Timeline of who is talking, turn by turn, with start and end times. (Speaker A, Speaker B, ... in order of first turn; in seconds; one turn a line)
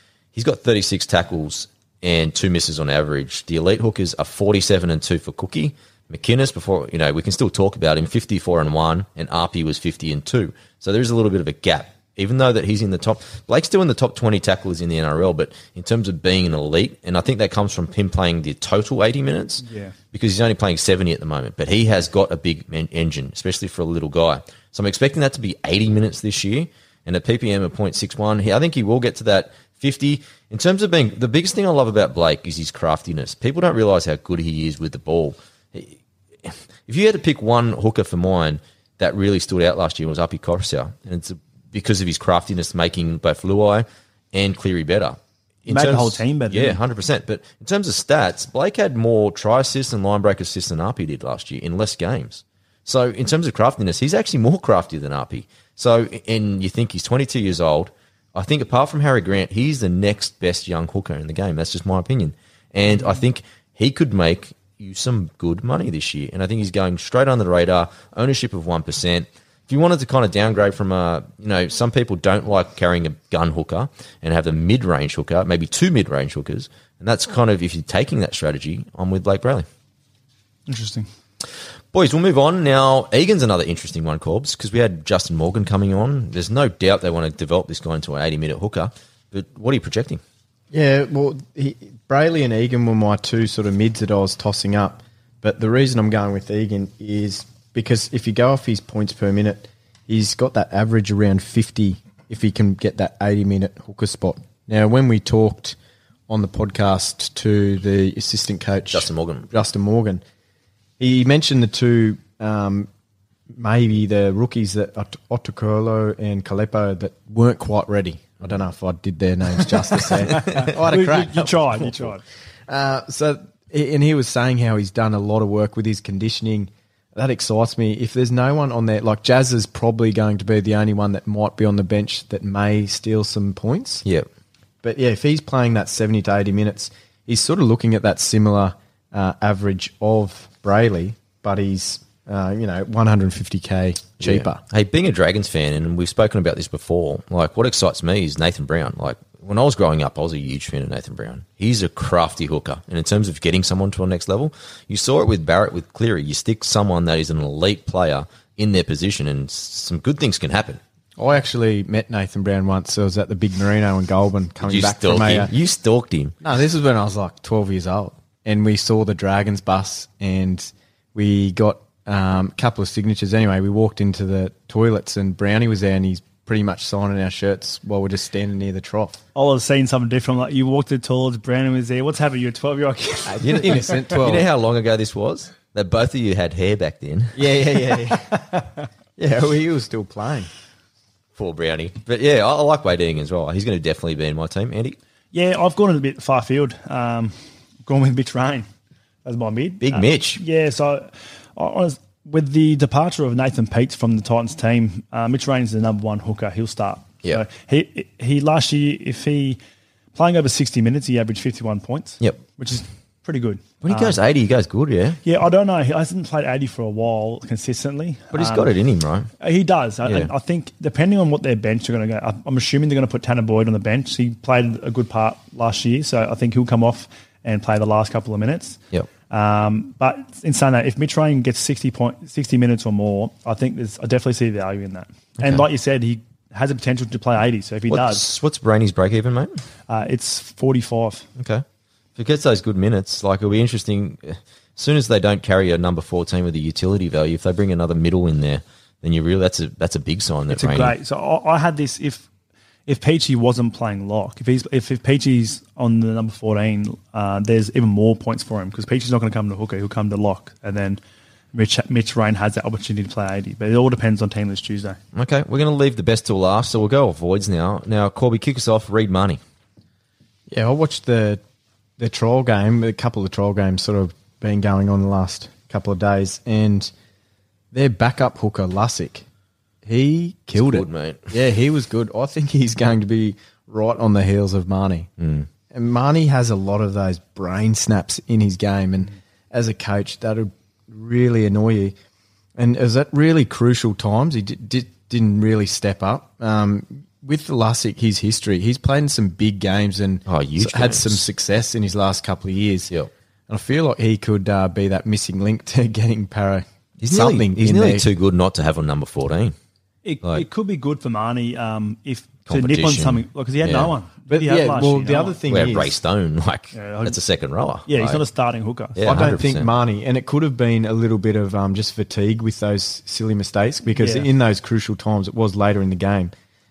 Speaker A: 0.3-79.7
Speaker B: 19.6-19.9
Speaker B: 45.7-46.8
Speaker B: 80.7-81.1
Speaker A: 81.9-90.2
Speaker C: 90.7-105.8
Speaker C: 106.3-110.2
Speaker A: 108.9-109.5
Speaker C: 111.0-112.9
Speaker C: 113.6-122.1
Speaker B: 120.6-122.2
Speaker C: 122.7-134.1
Speaker C: 134.8-144.6
Speaker A: 144.2-160.8
Speaker C: 161.2-165.5
Speaker A: 164.6-166.4
Speaker C: 166.4-179.2
Speaker B: 179.3-183.7
Speaker C: 183.3-184.5
Speaker A: 183.4-187.4
Speaker C: 187.3-188.6
Speaker C: 189.2-190.5
Speaker A: 191.4-195.0
Speaker B: 195.3-198.7
Speaker B: 199.2-209.6
Speaker A: 199.8-200.4
Speaker B: 210.2-214.2
Speaker A: 213.8-215.2
Speaker B: 215.2-218.7
Speaker A: 218.3-219.3
Speaker B: 219.4-238.3
Speaker A: 220.1-220.3
Speaker A: 235.4-235.7
Speaker A: 237.9-239.6
Speaker B: 239.9-241.3
Speaker A: 241.4-241.6
Speaker A: 242.2-250.9
Speaker B: 250.5-252.3
Speaker B: 252.9-261.0
Speaker B: 261.5-265.0
Speaker A: 265.1-269.4
Speaker C: 270.5-271.4
Speaker C: 272.0-276.9
Speaker C: 277.7-279.2
Speaker C: 279.8-285.1
Speaker A: 280.6-281.3
Speaker A: 285.2-285.5
Speaker C: 285.7-291.9
Speaker C: 292.6-302.9
Speaker A: 300.3-301.3
Speaker C: 303.5-308.1
Speaker A: 307.0-309.5
Speaker B: 310.0-315.4
Speaker A: 312.5-313.9
Speaker C: 314.3-316.0
Speaker A: 315.5-318.2
Speaker B: 316.7-317.2
Speaker B: 317.9-319.0
Speaker A: 319.0-319.7
Speaker C: 319.0-326.3
Speaker B: 324.0-324.3